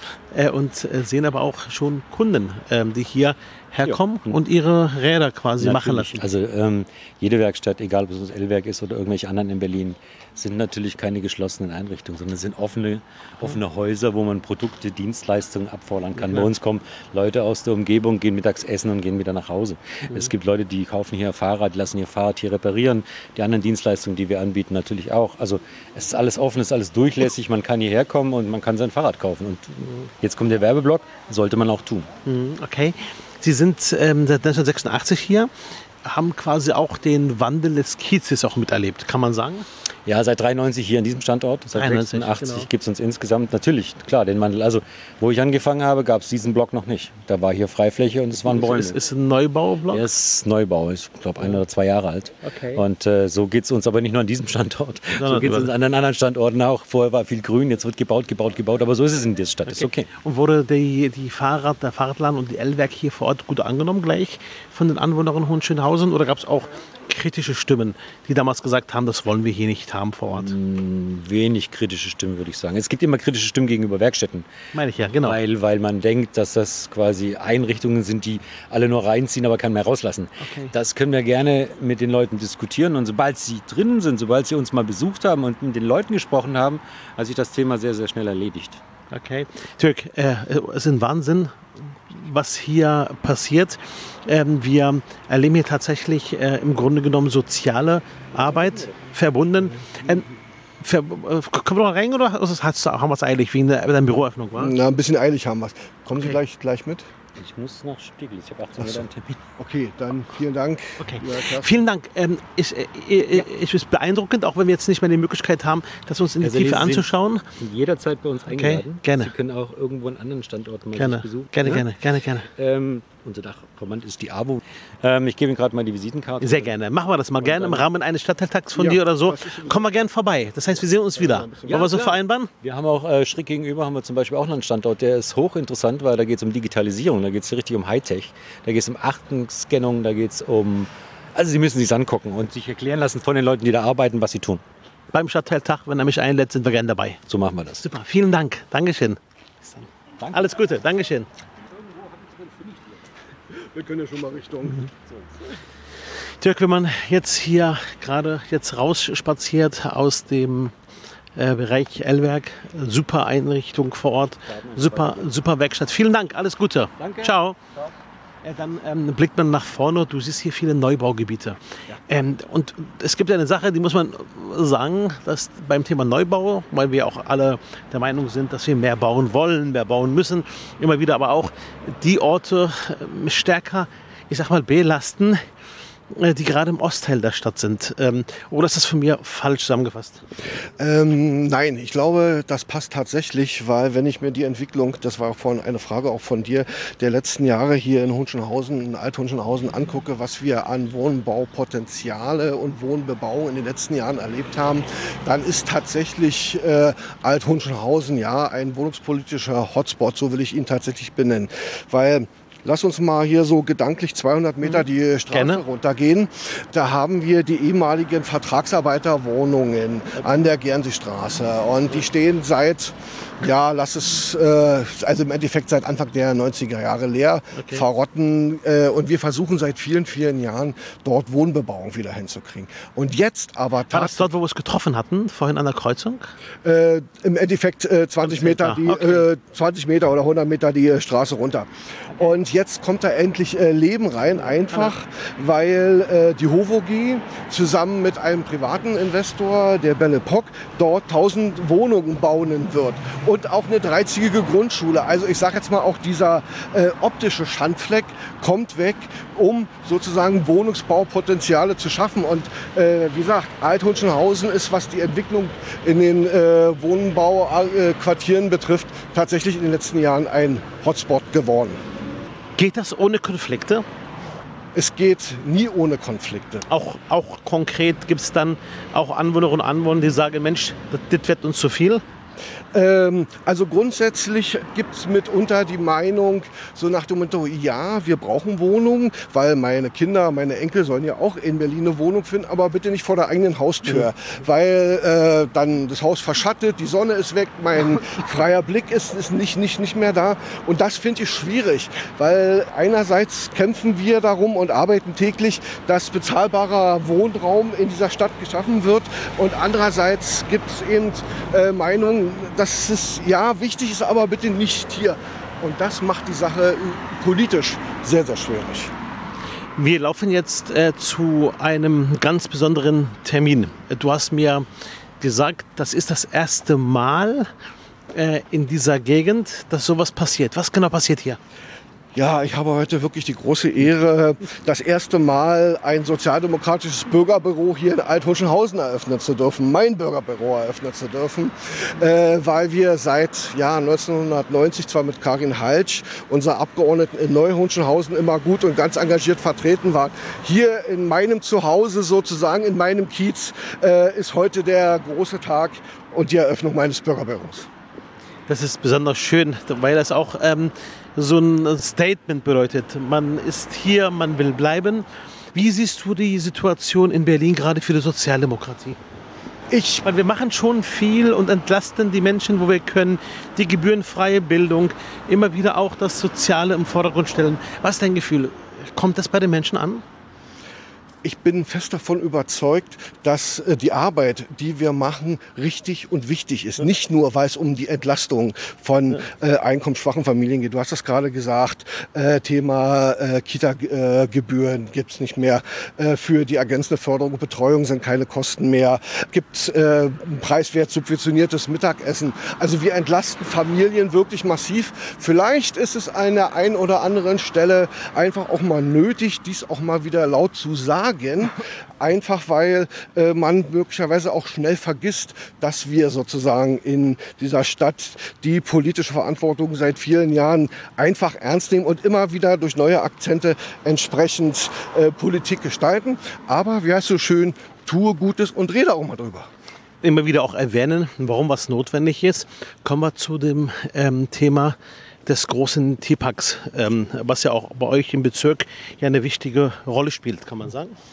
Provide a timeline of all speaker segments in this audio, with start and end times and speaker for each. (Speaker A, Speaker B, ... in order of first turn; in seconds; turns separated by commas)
Speaker A: 0.3-6.2, Speaker B: 3.9-4.3, Speaker B: 5.6-32.1, Speaker A: 32.2-35.5, Speaker A: 36.0-39.6, Speaker B: 40.0-49.0, Speaker A: 41.7-42.7, Speaker A: 48.5-50.0, Speaker B: 49.9-60.1, Speaker A: 52.4-52.8, Speaker A: 55.2-55.7, Speaker A: 59.7-70.5, Speaker B: 70.3-74.5, Speaker A: 74.7-75.4, Speaker B: 75.2-88.8, Speaker A: 80.4-80.7, Speaker A: 89.1-100.2, Speaker B: 98.4-98.9, Speaker A: 100.8-104.8, Speaker C: 104.6-107.1, Speaker B: 107.4-109.4, Speaker C: 109.6-111.8, Speaker A: 111.0-117.5, Speaker B: 116.4-121.9, Speaker A: 118.5-119.3, Speaker A: 121.0-122.5, Speaker B: 122.5-126.7, Speaker A: 126.4-132.5, Speaker B: 127.4-127.9, Speaker C: 128.8-129.8, Speaker C: 131.2-131.9, Speaker B: 131.7-144.6, Speaker A: 145.1-147.2, Speaker B: 147.3-147.8, Speaker A: 147.8-151.3, Speaker B: 150.2-150.5, Speaker C: 153.5-154.8, Speaker A: 156.4-160.7, Speaker A: 161.3-167.6, Speaker B: 164.5-165.2, Speaker B: 167.0-167.3, Speaker A: 168.4-185.4, Speaker A: 186.1-190.2, Speaker C: 190.8-234.3, Speaker A: 215.3-215.6, Speaker A: 227.6-227.8, Speaker A: 233.9-236.3, Speaker C: 236.6-271.8, Speaker A: 238.2-239.2, Speaker A: 272.6-273.8, Speaker C: 274.7-276.6, Speaker A: 276.7-282.0, Speaker C: 282.7-318.9, Speaker A: 319.8-324.7, Speaker A: 325.2-327.5, Speaker A: 328.1-331.4, Speaker C: 332.1-357.7, Speaker A: 358.5-369.0, Speaker C: 369.7-370.0, Speaker A: 370.0-380.0, Speaker C: 381.2-429.5, Speaker A: 430.0-440.9